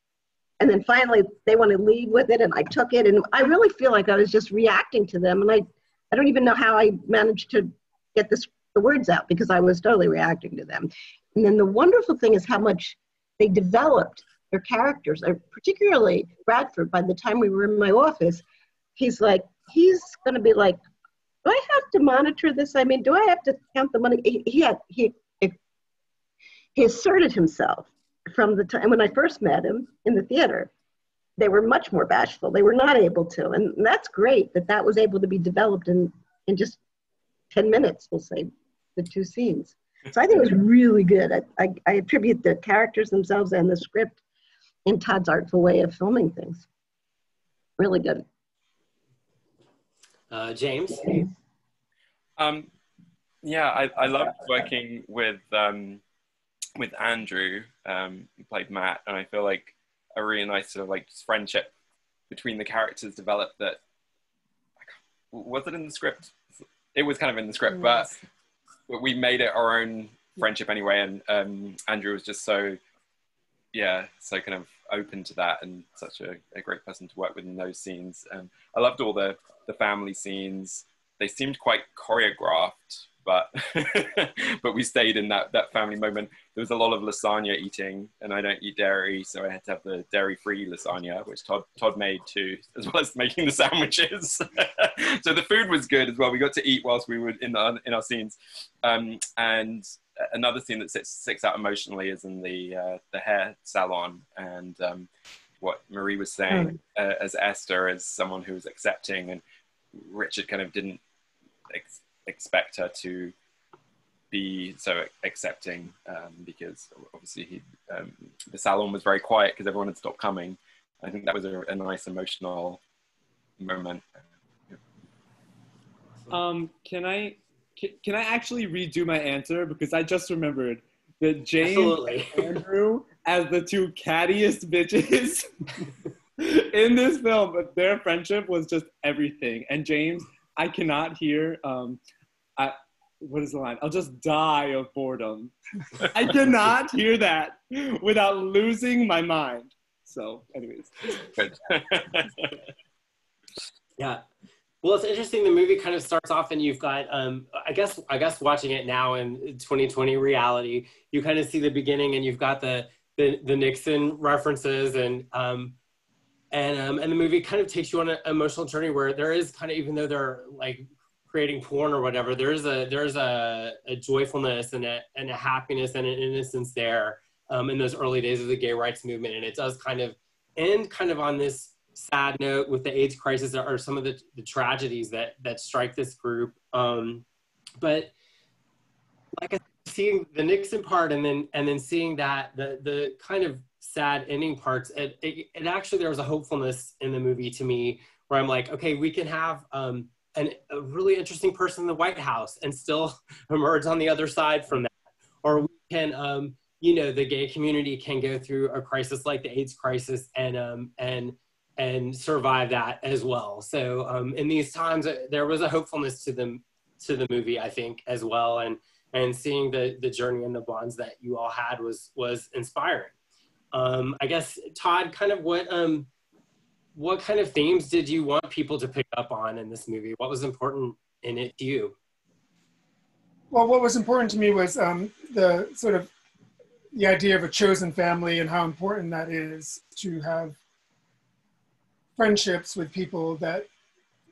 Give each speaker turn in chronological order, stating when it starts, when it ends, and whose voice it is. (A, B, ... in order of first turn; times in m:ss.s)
0:00.6-0:18.4 A
0:19.0-0:20.8 A
0:21.4-0:25.6 A
0:26.8-0:30.7 A
0:31.4-0:36.8 A
0:37.5-0:44.2 A
0:44.8-0:46.6 A
0:47.8-0:48.2 A
0:50.3-0:51.2 B
0:52.4-0:52.7 C
0:53.4-0:56.0 C
0:56.8-1:01.7 C
1:02.3-1:03.8 C
1:04.8-1:06.3 C
1:06.9-1:08.1 C
1:07.7-1:08.0 D
1:08.9-1:12.8 C
1:13.7-1:45.1 C
1:45.6-1:49.4 C
1:49.9-1:51.0 C
1:51.7-1:53.3 C
1:54.3-2:02.8 C
2:03.6-2:04.1 C
2:06.3-2:15.5 E
2:11.6-2:12.6 B
2:16.4-2:22.0 E
2:22.6-2:25.5 E
2:26.1-2:31.2 E
2:31.4-2:32.5 C
2:34.8-2:45.7 B
2:46.5-3:07.2 B
3:07.8-3:08.1 B
3:09.4-3:24.9 B
3:25.4-3:43.1 B
3:43.7-3:46.1 B
3:46.9-3:51.9 B
3:53.5-3:56.1 D
3:56.9-4:00.6 D
4:02.2-4:03.7 D